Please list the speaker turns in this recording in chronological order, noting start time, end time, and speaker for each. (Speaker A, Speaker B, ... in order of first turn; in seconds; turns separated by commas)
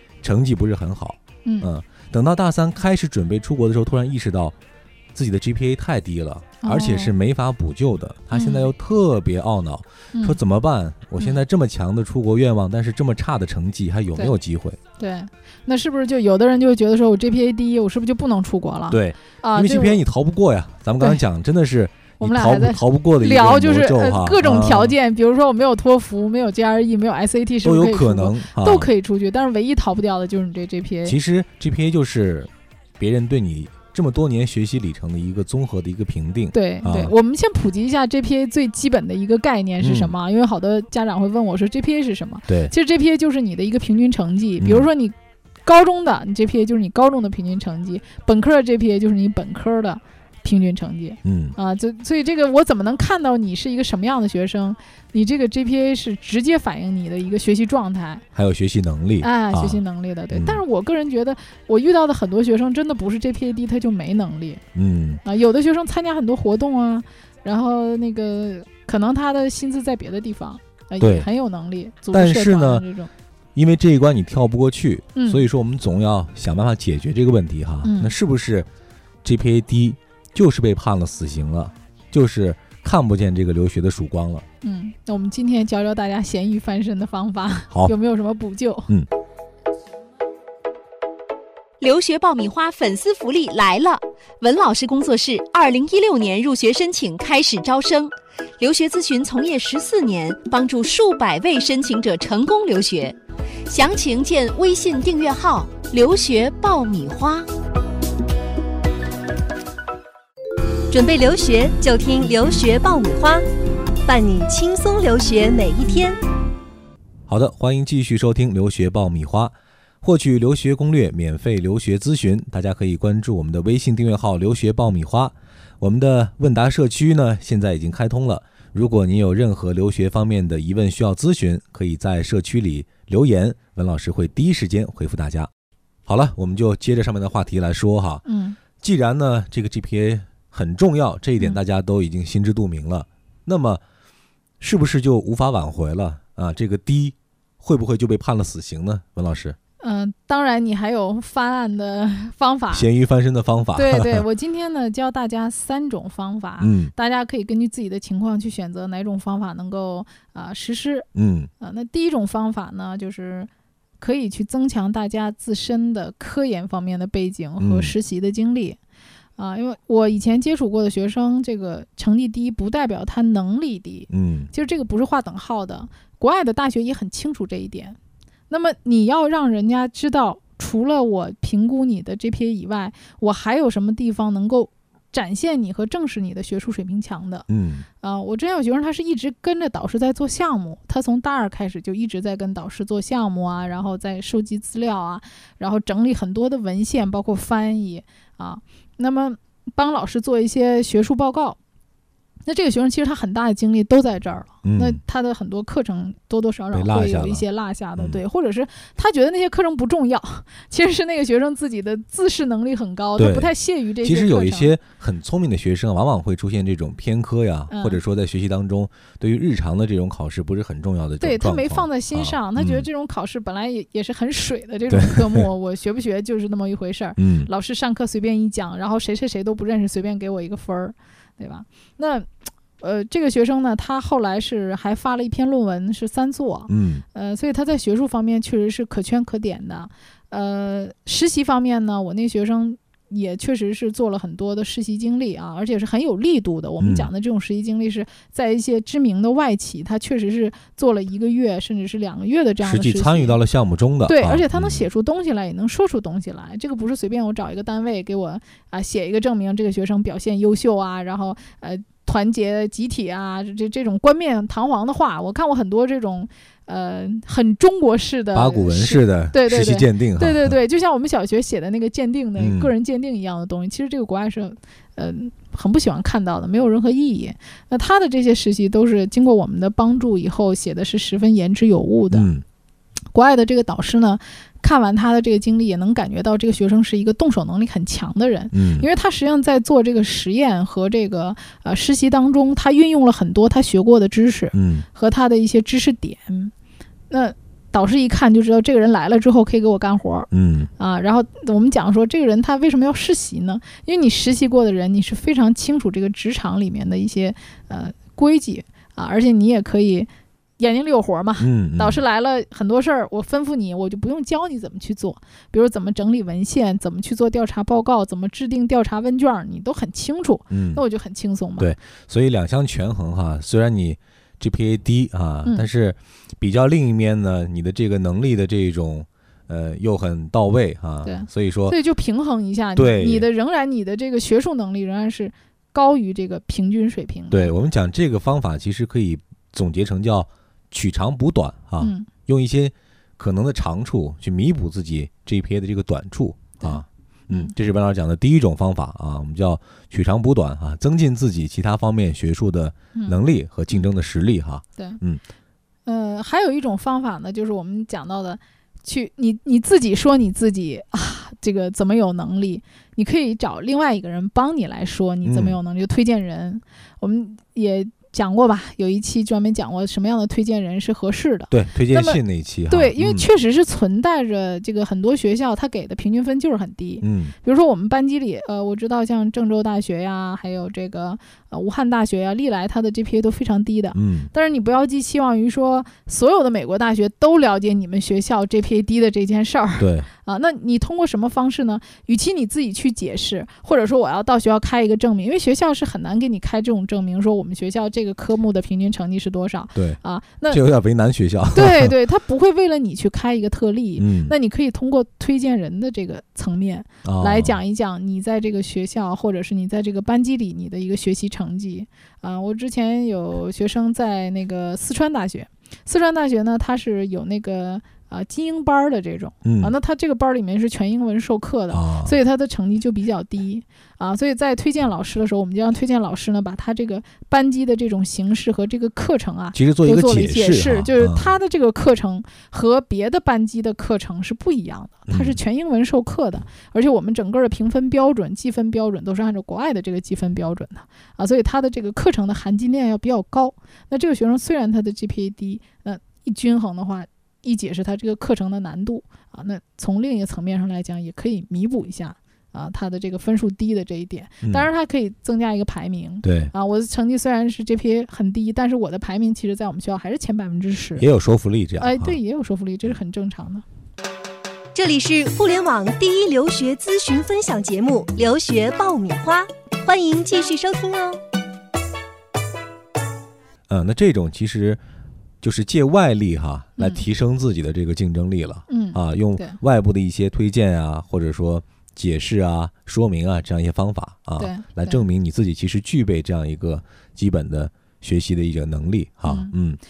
Speaker A: 0.2-4.6, Speaker B: 1.4-1.7, Speaker A: 5.2-14.8, Speaker B: 6.6-7.2, Speaker B: 8.3-8.7, Speaker B: 10.1-10.4, Speaker B: 15.0-20.0, Speaker A: 18.9-25.0, Speaker B: 22.2-31.2, Speaker A: 27.6-28.9, Speaker A: 31.1-37.1, Speaker B: 36.5-45.1, Speaker A: 39.8-40.1, Speaker A: 42.5-42.7, Speaker A: 44.6-44.9, Speaker B: 45.7-58.2, Speaker A: 51.2-51.6, Speaker A: 58.4-60.6, Speaker B: 59.2-64.6, Speaker A: 64.8-65.2, Speaker B: 65.2-73.1, Speaker A: 71.0-71.3, Speaker A: 72.1-72.8, Speaker A: 73.5-78.7, Speaker B: 75.2-75.5, Speaker B: 77.8-78.2, Speaker A: 79.2-84.5, Speaker B: 84.6-88.9, Speaker C: 91.8-107.5, Speaker D: 110.9-113.5, Speaker D: 114.1-116.2, Speaker A: 117.3-135.5, Speaker A: 136.1-138.2, Speaker B: 138.3-138.6, Speaker A: 138.8-143.8, Speaker A: 144.6-149.6, Speaker B: 149.8-152.9, Speaker A: 152.7-154.3, Speaker B: 153.8-161.1, Speaker A: 156.6-156.9, Speaker A: 161.2-161.5, Speaker B: 161.6-168.8, Speaker A: 167.6-167.9, Speaker B: 169.4-178.0, Speaker A: 174.1-174.5, Speaker B: 178.5-187.5, Speaker A: 187.5-187.9, Speaker B: 188.0-201.6, Speaker B: 202.5-214.7, Speaker A: 204.6-205.0, Speaker A: 206.7-207.4, Speaker A: 213.2-222.9, Speaker B: 217.7-218.0, Speaker B: 221.2-253.4, Speaker A: 224.9-225.5, Speaker A: 227.2-227.5, Speaker A: 236.7-237.0, Speaker A: 246.8-247.1, Speaker A: 252.6-254.8, Speaker B: 254.1-282.3, Speaker A: 268.3-270.6, Speaker A: 272.4-272.7, Speaker A: 282.1-282.4, Speaker B: 283.1-296.5, Speaker A: 288.5-288.9, Speaker A: 294.5-294.9, Speaker B: 297.1-321.7, Speaker A: 300.3-300.7, Speaker A: 311.4-312.0, Speaker A: 320.5-320.8, Speaker A: 321.6-331.8, Speaker B: 331.0-337.5, Speaker A: 332.8-333.3, Speaker A: 337.3-355.2, Speaker B: 341.8-342.1, Speaker B: 346.6-347.5, Speaker B: 352.9-353.2, Speaker B: 355.9-400.6, Speaker A: 365.2-365.6, Speaker A: 371.5-373.3, Speaker A: 377.0-377.4, Speaker A: 383.9-384.3, Speaker A: 389.8-390.1, Speaker A: 399.8-401.9, Speaker B: 401.6-461.1, Speaker A: 404.0-404.3, Speaker A: 407.1-407.6, Speaker A: 419.4-419.7, Speaker A: 421.7-422.2, Speaker A: 429.5-431.4, Speaker A: 435.1-435.4, Speaker A: 456.2-456.5, Speaker A: 461.0-462.2, Speaker B: 461.8-463.6, Speaker D: 464.8-471.2, Speaker A: 473.7-474.8, Speaker A: 475.4-489.8, Speaker B: 476.8-477.0, Speaker B: 478.7-479.6, Speaker B: 484.4-485.1, Speaker B: 489.2-489.5